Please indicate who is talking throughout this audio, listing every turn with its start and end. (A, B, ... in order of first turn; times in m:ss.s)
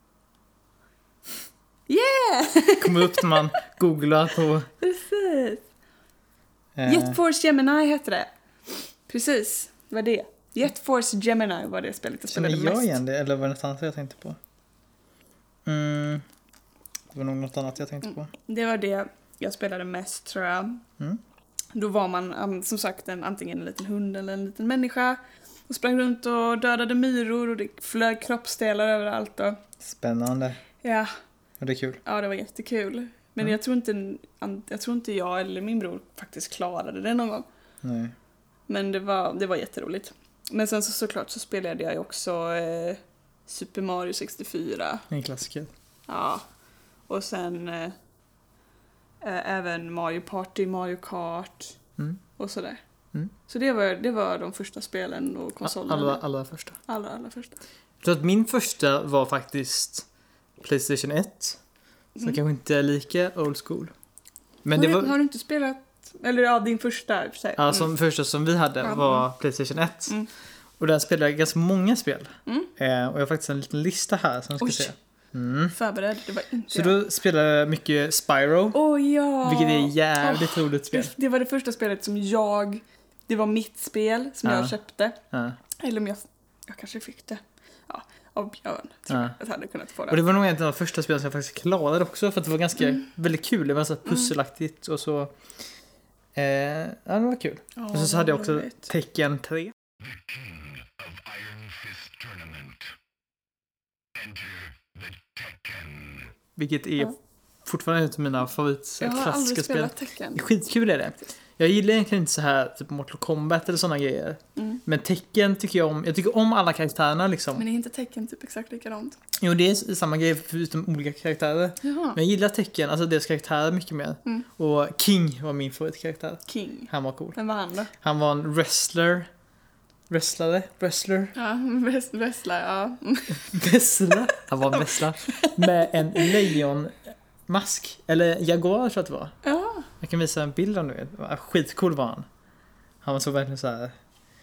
0:01.9-0:03.6 A
0:02.8-0:04.7 B
0:04.8-0:05.6 A
0:06.8-0:07.2 B
0:06.9-0:08.3 A
0:09.1-0:13.0 A
0:12.3-0:14.4 B
0:15.7-0:16.2 B
0:17.1-0:18.3 B
0:18.3-0:20.8 A
0:21.7-0:29.6 A
0:29.8-0:30.6 B
0:30.8-0:31.1 A
0:31.6-0:32.0 B
0:32.0-0:37.5 A
0:37.8-0:38.1 B
0:38.7-0:45.1 A
0:45.1-0:45.7 B
0:46.1-0:46.5 A
0:47.1-0:47.9 A
0:49.2-0:51.8 A
0:52.4-0:52.8 A
0:53.5-0:56.2 A
0:55.6-0:56.8 B
0:56.9-0:57.6 A
0:58.0-1:00.1 B
1:00.6-1:01.6 B
1:02.2-1:03.9 B
1:04.6-1:05.1 B
1:04.7-1:07.9 A
1:07.6-1:10.2 B
1:08.8-1:09.2 A
1:10.8-1:15.7 B
1:12.5-1:12.7 A
1:14.6-1:14.9 A
1:15.7-1:17.0 A
1:16.7-1:18.8 B
1:18.7-1:25.2 A
1:19.4-1:21.1 B
1:24.4-1:24.8 B
1:25.3-1:25.6 B
1:25.8-1:30.2 A
1:30.1-1:35.4 B
1:36.4-1:39.7 B
1:37.8-1:38.9 A
1:41.4-1:42.8 C
1:45.5-1:46.2 C
1:46.6-1:57.6 B
1:49.0-1:50.4 A
1:54.6-1:54.8 A
1:57.6-1:59.2 A
1:59.4-2:07.4 B
2:01.8-2:02.2 A
2:06.5-2:07.9 A
2:08.0-2:09.3 B
2:10.1-2:11.3 B
2:11.4-2:16.6 A
2:13.5-2:17.0 B
2:17.5-2:19.4 B
2:19.4-2:19.9 A
2:20.0-2:22.3 B
2:23.0-2:23.9 B